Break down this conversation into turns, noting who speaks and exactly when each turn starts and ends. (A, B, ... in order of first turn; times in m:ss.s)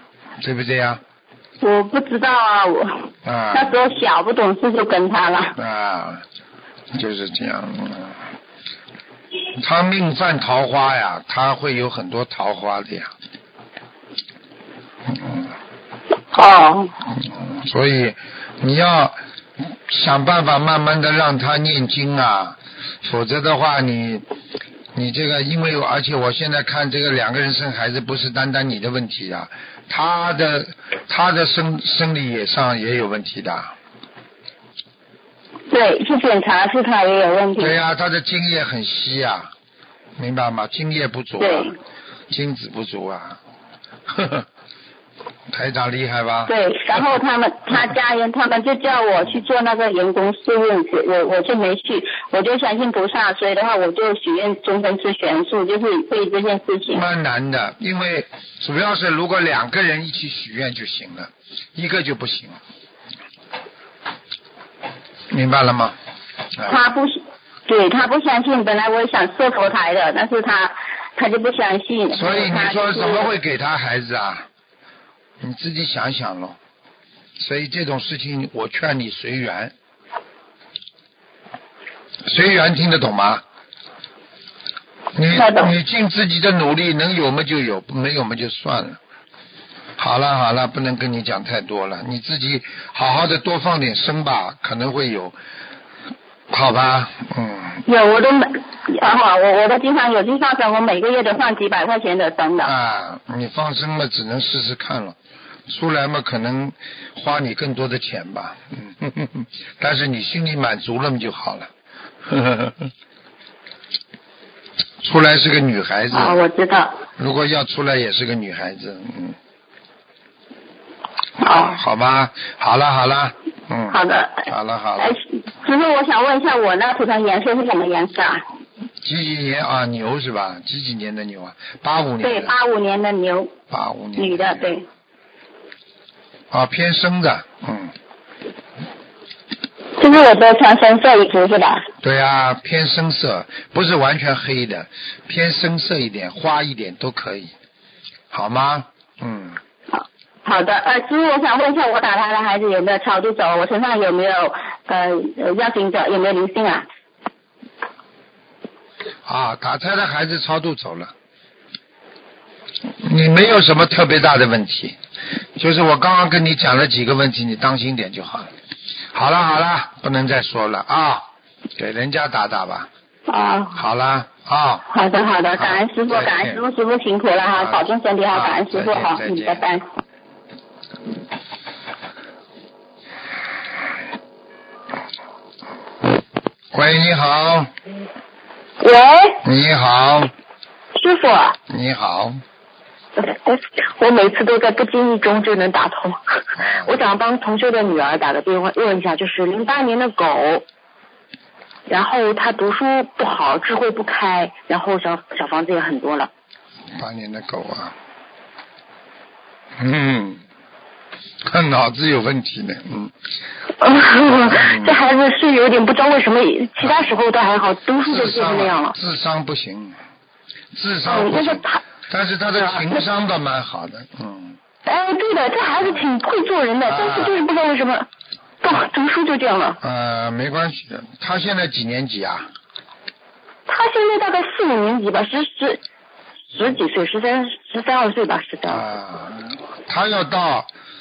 0:00.4-0:01.0 A
0:01.6-0:05.6 B
0:03.2-0:03.8 A
0:05.6-0:06.2 A
0:06.9-0:08.2 A
0:09.6-0:13.1 A
0:15.1-0:15.5 A
0:16.3-0:16.9 B
0:17.2-0:19.2 A
0:19.9-0:24.2 A
0:25.0-0:33.7 A
0:35.7-0:37.7 B
0:37.6-0:39.5 A
0:40.2-0:41.7 A
0:41.4-0:41.7 B
0:42.3-0:43.4 A
0:44.1-0:44.5 A
0:45.5-0:47.0 A
0:46.5-0:57.0 B
0:56.9-1:02.6 A
1:05.3-1:06.0 A
1:06.7-1:13.3 B
1:12.1-1:14.5 A
1:15.4-1:16.6 A
1:17.4-1:19.7 A
1:22.2-1:23.4 A
1:25.2-1:29.0 A
1:25.3-1:25.7 B
1:30.0-1:35.4 A
1:36.5-1:37.8 A
1:37.9-1:42.7 B
1:42.6-1:45.2 A
1:45.7-1:51.7 A
1:52.3-1:52.9 A
1:55.0-1:56.4 A
1:56.1-1:57.0 B
1:57.2-1:59.4 A
2:01.4-2:05.2 A
2:01.4-2:01.7 B
2:03.9-2:04.5 B
2:05.0-2:08.4 B
2:09.0-2:12.6 A
2:12.2-2:13.5 B
2:13.7-2:14.7 A
2:14.2-2:14.8 B
2:16.5-2:18.0 A
2:20.0-2:21.9 B
2:22.0-2:27.5 A
2:28.3-2:29.6 A
2:29.9-2:36.9 B
2:39.3-2:41.1 A
2:43.0-2:45.0 A
2:45.6-2:48.5 A
2:49.1-2:52.9 A
2:53.3-2:53.8 B
2:53.8-2:54.9 A
2:54.9-2:59.8 B
2:55.6-2:56.6 A
2:57.6-2:59.6 A
3:06.7-3:07.7 A
3:08.9-3:09.4 B
3:09.4-3:10.3 A
3:11.0-3:11.5 C
3:11.7-3:12.4 A
3:13.2-3:20.6 C
3:16.6-3:17.0 A
3:21.9-3:26.3 C
3:27.0-3:28.0 A
3:29.8-3:30.4 A
3:31.4-3:33.1 A
3:33.8-3:39.0 C
3:34.3-3:35.0 A
3:38.1-3:40.0 A
3:40.7-3:44.6 A
3:41.1-3:41.8 C
3:44.9-3:48.1 C
3:45.8-3:46.1 A
3:46.9-3:47.4 A
3:48.6-3:49.8 C
3:49.8-3:52.5 A
3:53.7-3:55.8 C
3:56.5-3:58.9 C
3:58.7-4:00.7 A